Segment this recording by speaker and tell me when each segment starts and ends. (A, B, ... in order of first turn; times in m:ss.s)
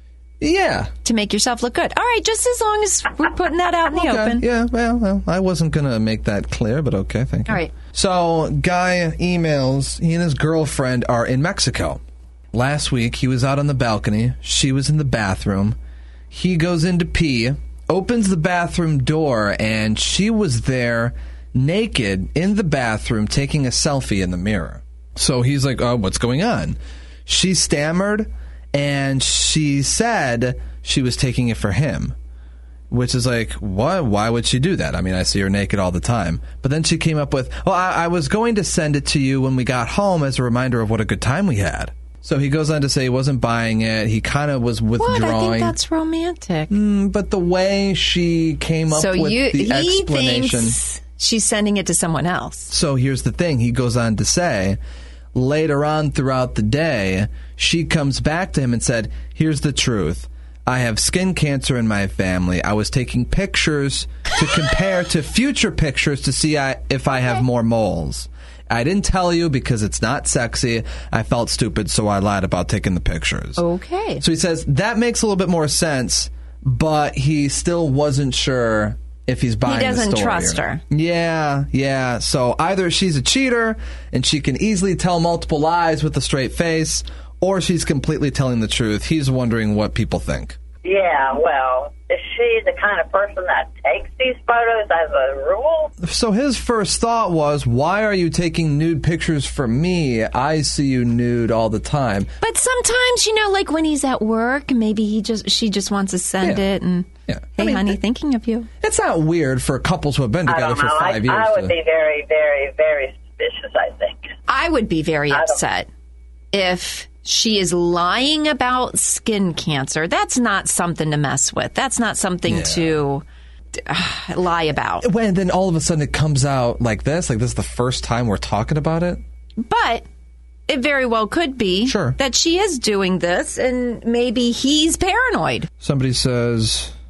0:00.4-0:00.9 A
0:01.0-0:04.4 B
0:03.9-0:12.0 A
0:12.5-0:15.8 A
0:16.3-0:32.2 A
0:32.9-0:45.8 A
0:45.0-0:46.7 B
0:46.7-0:50.8 A
0:48.9-0:52.7 B
0:52.7-0:54.8 A
0:55.3-1:13.6 A
1:13.6-1:14.2 B
1:14.2-1:30.6 A
1:19.6-1:20.8 B
1:30.8-1:35.9 C
1:36.0-1:42.3 A
1:42.4-1:48.7 B
1:47.3-1:47.9 A
1:48.8-1:51.7 A
1:50.5-1:54.3 C
1:54.5-1:55.9 B
1:55.3-1:55.6 C
1:56.5-2:03.2 B
2:02.5-2:03.0 A
2:03.8-2:05.1 B
2:05.0-2:09.2 A
2:09.6-2:10.0 B
2:10.7-2:15.7 B
2:11.8-2:12.2 A
2:15.8-2:16.9 A